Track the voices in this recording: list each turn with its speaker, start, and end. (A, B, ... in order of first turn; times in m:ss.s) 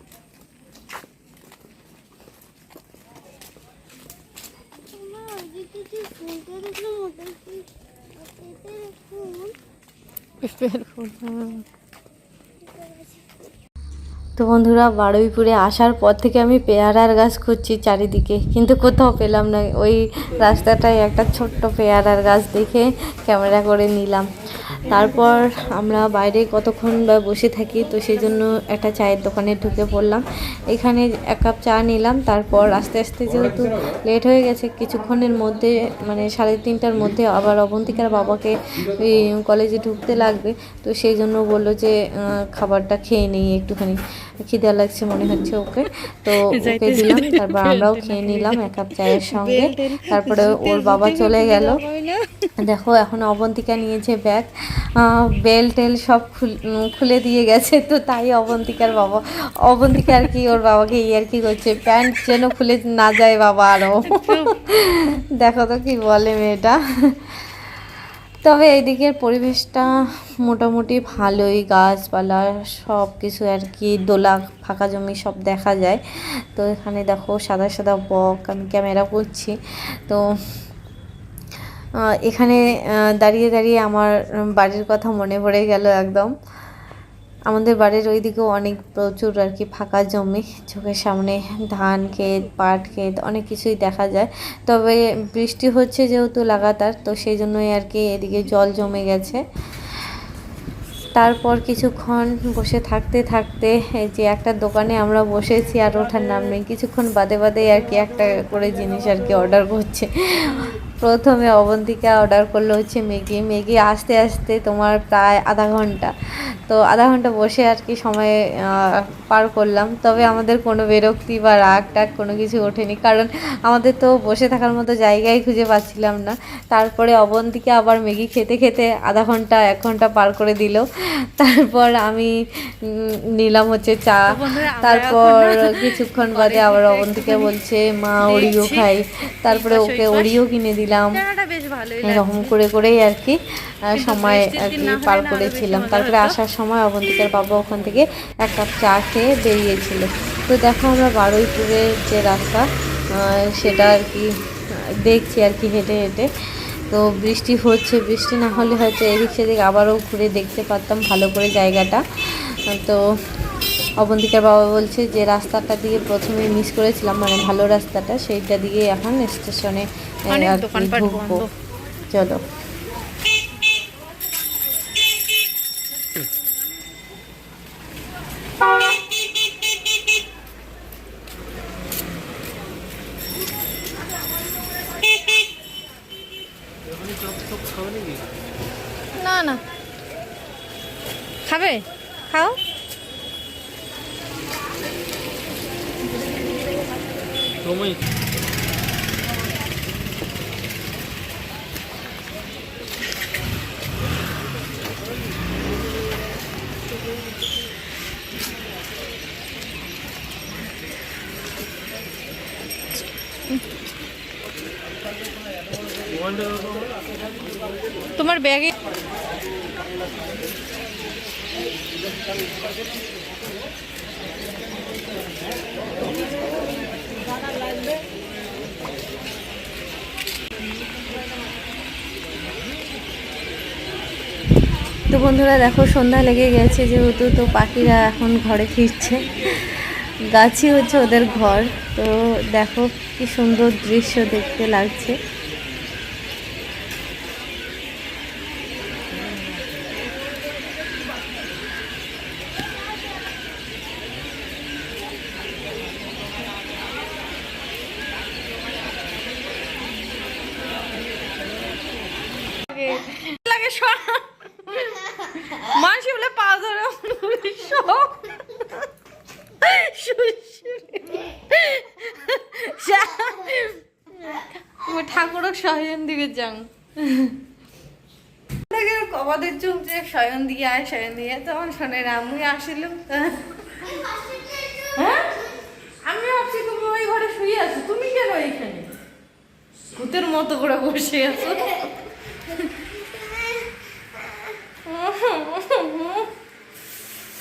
0:04.9-0:09.5 A
0:10.4-0:11.6 B
0:12.6-0:13.4 A
0:14.4-0:24.3 C
0:24.8-0:51.8 C
0:46.3-0:52.5 B
0:52.6-1:07.2 C
1:04.0-1:04.6 B
1:08.4-1:16.0 C
1:16.5-1:19.5 C
1:22.1-1:26.3 C
1:27.5-1:39.4 C
1:41.1-1:56.1 C
1:56.7-2:10.8 C
2:11.4-2:21.2 C
2:14.3-2:17.5 B
2:18.2-2:18.9 B
2:19.4-2:20.3 B
2:21.1-2:22.5 B
2:22.0-2:34.3 C
2:23.9-2:26.4 B
2:35.0-2:36.3 C
2:36.9-2:43.0 C
2:44.0-2:51.4 C
2:50.3-2:51.5 B
2:52.1-2:52.4 C
3:09.1-3:09.6 B
3:11.4-3:12.6 B
3:38.2-3:38.7 B
3:55.1-4:05.2 C
4:22.7-4:28.9 B
4:29.6-4:37.4 B
4:38.7-4:43.8 B
4:43.8-4:45.5 A
4:45.0-4:45.3 B
4:46.0-4:49.0 B
4:49.9-4:51.8 B
4:51.6-4:51.9 A
4:52.5-4:54.3 A
4:54.8-4:56.3 B